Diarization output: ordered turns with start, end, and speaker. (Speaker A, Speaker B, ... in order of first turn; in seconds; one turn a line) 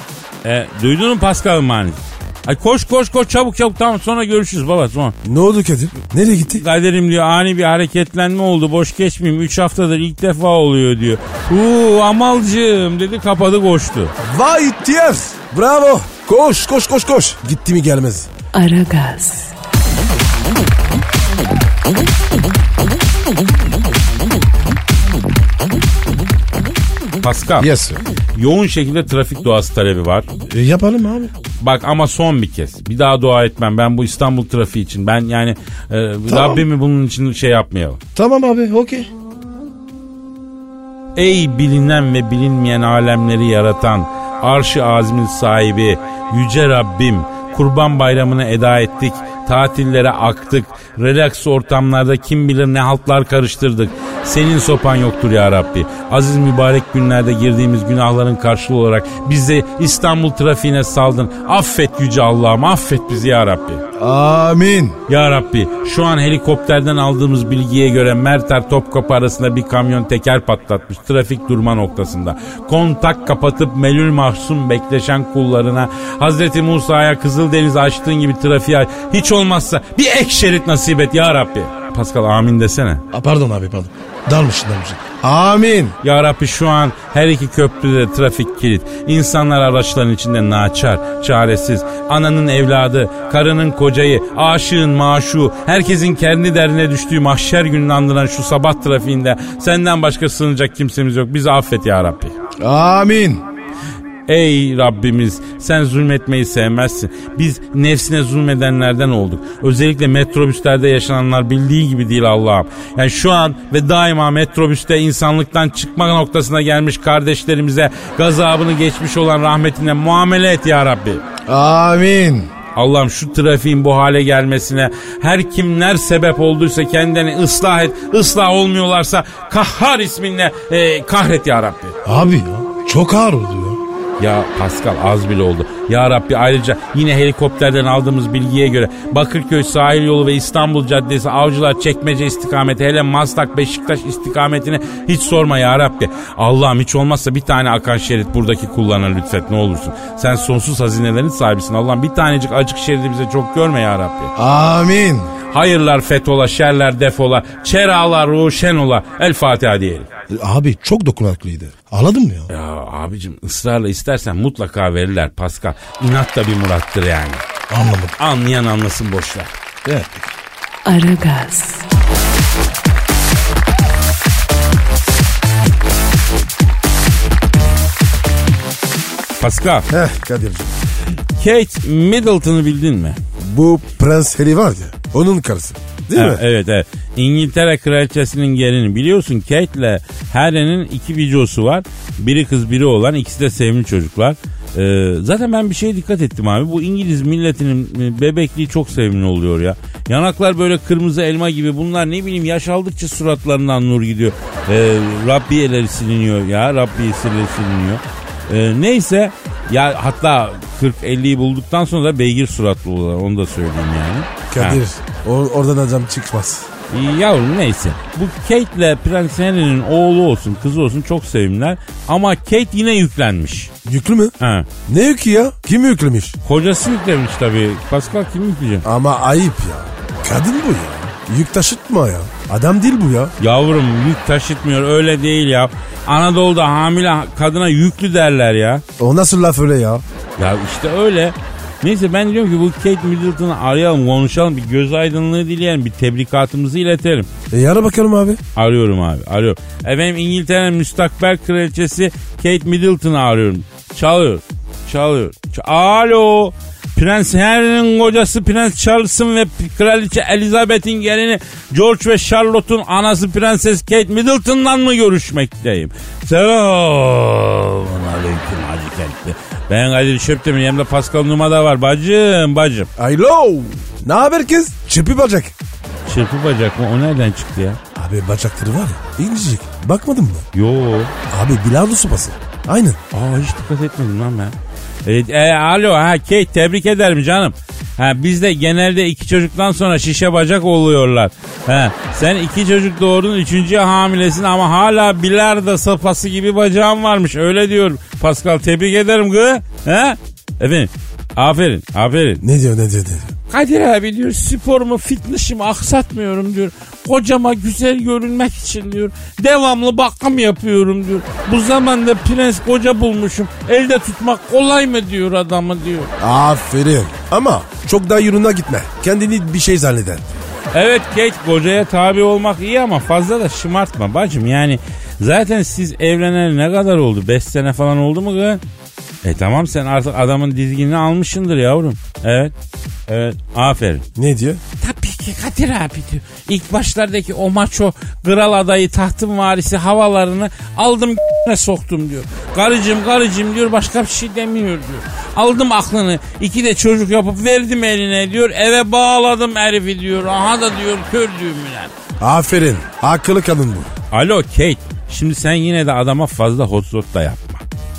Speaker A: 0.4-5.2
Speaker B: 5.2-6.6
Speaker A: 6.4-14.1
Speaker B: 14.2-18.3
Speaker C: 18.5-19.5
Speaker A: 27.2-27.7
Speaker B: 27.6-28.1
Speaker A: 28.3-30.3
Speaker B: 30.5-31.3
Speaker A: 31.6-38.0
Speaker B: 36.3-36.7
Speaker B: 38.1-39.1
Speaker A: 41.2-63.8
Speaker B: 64.0-65.0
Speaker A: 65.1-83.0
Speaker B: 83.1-86.0
Speaker A: 86.0-102.3
Speaker B: 102.6-103.4
Speaker A: 104.3-121.2
Speaker B: 121.5-122.5
Speaker A: 122.7-131.9
Speaker B: 132.0-133.8
Speaker A: 134.2-154.3
Speaker B: 154.3-155.3
Speaker A: 155.5-160.1
Speaker B: 160.3-162.5
Speaker A: 162.5-167.4
Speaker B: 167.7-168.2
Speaker A: 168.2-169.5
Speaker B: 169.8-170.3
Speaker C: 170.8-171.8
Speaker A: 179.4-179.9
Speaker B: 179.9-180.7
Speaker A: 181.4-183.2
Speaker B: 183.4-186.4
Speaker A: 186.1-214.8
Speaker B: 214.5-216.7
Speaker A: 216.9-223.7
Speaker B: 223.8-224.3
Speaker A: 224.4-224.7
Speaker B: 224.8-226.3
Speaker A: 226.4-228.8
Speaker B: 228.8-233.3
Speaker A: 233.4-238.8
Speaker B: 239.0-240.0
Speaker A: 240.4-247.3
Speaker B: 247.5-248.4
Speaker A: 248.6-272.9
Speaker B: 273.0-275.5
Speaker A: 276.1-277.8
Speaker B: 277.9-280.5
Speaker A: 280.5-281.1
Speaker B: 281.3-283.0
Speaker A: 283.1-302.4
Speaker B: 302.4-303.3
Speaker A: 303.5-316.1
Speaker B: 316.2-320.3
Speaker A: 320.7-328.6
Speaker A: 329.2-332.5
Speaker A: 333.1-334.1
Speaker B: 334.2-334.6
Speaker A: 334.8-351.9
Speaker B: 352.2-353.9
Speaker A: 354.1-357.6